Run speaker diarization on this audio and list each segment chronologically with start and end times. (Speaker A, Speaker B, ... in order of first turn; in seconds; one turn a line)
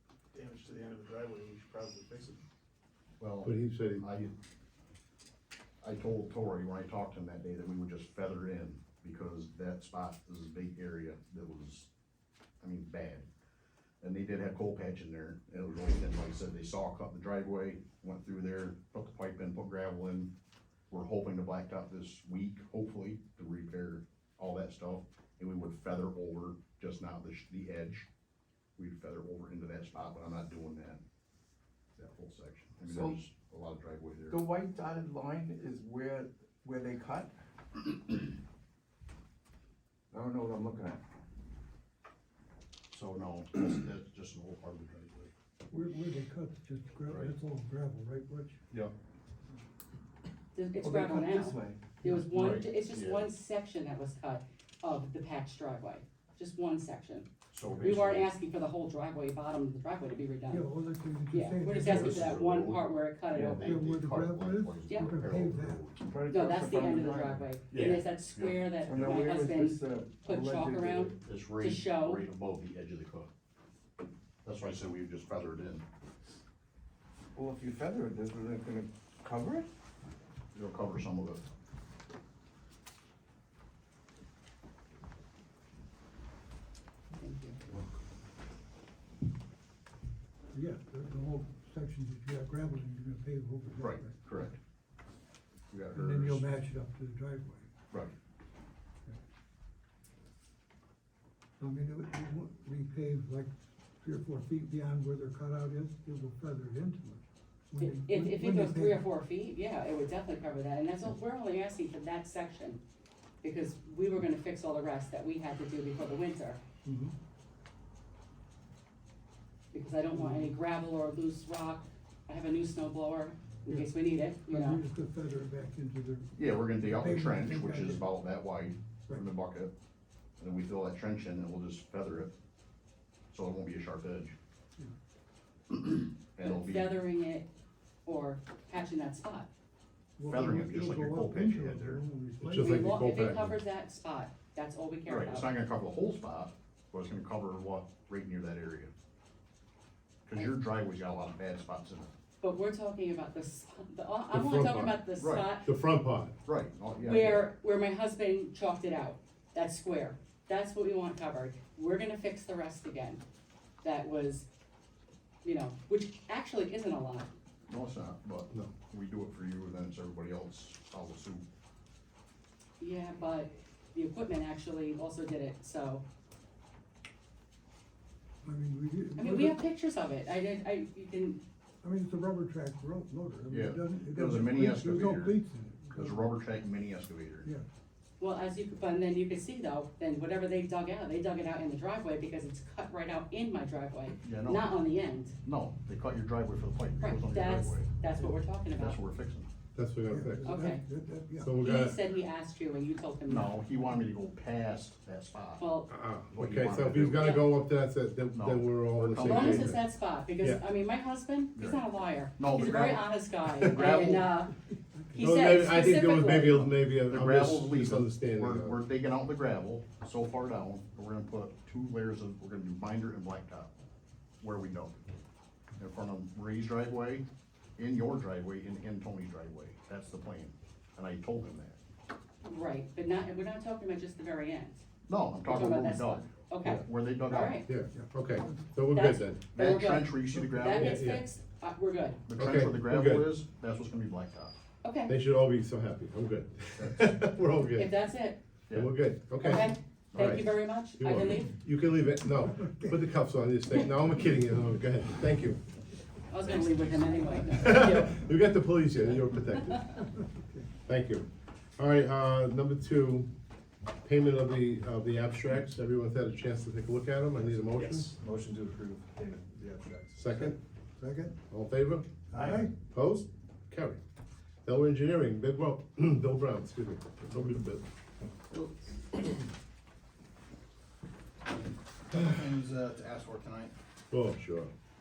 Speaker A: 0.3-2.4
Speaker B: 3.2-4.3
Speaker C: 3.4-4.1
Speaker B: 5.8-11.9
Speaker B: 12.6-13.2
Speaker B: 14.0-20.3
Speaker B: 20.9-28.1
Speaker B: 28.8-31.0
Speaker B: 31.9-34.4
Speaker D: 32.8-33.2
Speaker D: 34.3-37.3
Speaker D: 40.1-41.0
Speaker B: 42.9-45.3
Speaker E: 45.7-48.6
Speaker F: 50.5-60.7
Speaker D: 50.8-52.1
Speaker B: 52.3-53.3
Speaker B: 57.5-58.3
Speaker E: 60.5-62.5
Speaker F: 61.3-63.8
Speaker B: 61.8-66.0
Speaker E: 63.7-65.8
Speaker D: 65.9-67.5
Speaker F: 66.3-72.2
Speaker B: 67.7-68.7
Speaker D: 68.8-71.2
Speaker B: 71.2-73.3
Speaker B: 74.4-75.8
Speaker D: 77.3-79.7
Speaker B: 80.5-81.4
Speaker F: 87.2-87.6
Speaker E: 90.5-94.5
Speaker B: 93.8-94.6
Speaker B: 95.7-96.5
Speaker E: 95.9-97.7
Speaker E: 101.6-109.0
Speaker F: 107.8-112.8
Speaker F: 113.4-116.6
Speaker E: 116.8-117.1
Speaker F: 119.7-124.8
Speaker E: 120.1-120.5
Speaker E: 124.5-128.1
Speaker B: 126.3-129.7
Speaker B: 130.4-132.3
Speaker B: 133.3-134.3
Speaker B: 135.7-137.0
Speaker F: 136.4-137.5
Speaker F: 138.1-139.5
Speaker E: 140.2-142.9
Speaker B: 140.2-142.0
Speaker C: 142.4-143.6
Speaker F: 142.5-145.5
Speaker B: 145.1-148.9
Speaker B: 150.3-152.1
Speaker F: 152.4-155.7
Speaker C: 154.3-155.0
Speaker B: 155.2-155.5
Speaker C: 155.6-156.3
Speaker B: 156.4-157.5
Speaker F: 157.0-163.2
Speaker F: 163.8-164.4
Speaker F: 165.4-167.3
Speaker B: 167.7-171.4
Speaker F: 172.8-176.0
Speaker E: 178.4-179.6
Speaker F: 179.2-181.4
Speaker E: 181.8-186.3
Speaker B: 183.5-185.4
Speaker B: 185.9-187.5
Speaker F: 188.2-195.3
Speaker B: 194.2-194.8
Speaker B: 195.4-197.9
Speaker F: 197.0-199.0
Speaker B: 198.8-199.5
Speaker C: 199.7-200.5
Speaker E: 200.1-201.5
Speaker F: 200.4-200.8
Speaker C: 201.4-202.0
Speaker F: 201.6-203.5
Speaker B: 203.3-205.6
Speaker F: 205.6-205.9
Speaker C: 205.9-209.8
Speaker B: 206.3-207.4
Speaker B: 208.3-209.8
Speaker F: 209.2-214.5
Speaker B: 211.5-211.8
Speaker B: 212.3-214.3
Speaker F: 215.1-216.7
Speaker C: 215.2-218.8
Speaker B: 217.1-223.7
Speaker B: 224.4-225.2
Speaker B: 225.8-227.2
Speaker B: 227.8-231.8
Speaker F: 232.4-234.8
Speaker B: 235.1-237.6
Speaker F: 235.4-237.7
Speaker C: 237.4-239.4
Speaker E: 237.9-238.6
Speaker F: 238.9-242.2
Speaker B: 239.5-241.1
Speaker C: 240.6-241.2
Speaker B: 242.3-244.5
Speaker C: 242.3-243.3
Speaker F: 244.8-245.1
Speaker C: 245.1-247.9
Speaker B: 246.8-247.0
Speaker F: 247.7-248.4
Speaker C: 248.7-255.6
Speaker F: 249.4-251.5
Speaker B: 250.1-250.4
Speaker E: 252.7-253.0
Speaker F: 256.3-258.1
Speaker C: 257.6-260.0
Speaker E: 260.1-260.7
Speaker C: 260.9-263.3
Speaker C: 264.0-268.1
Speaker G: 268.1-270.3
Speaker C: 270.1-270.6
Speaker E: 271.0-271.4
Speaker C: 271.5-272.1
Speaker E: 272.4-272.7
Speaker C: 272.9-274.0
Speaker C: 274.6-277.8
Speaker B: 282.1-283.7
Speaker C: 284.1-284.7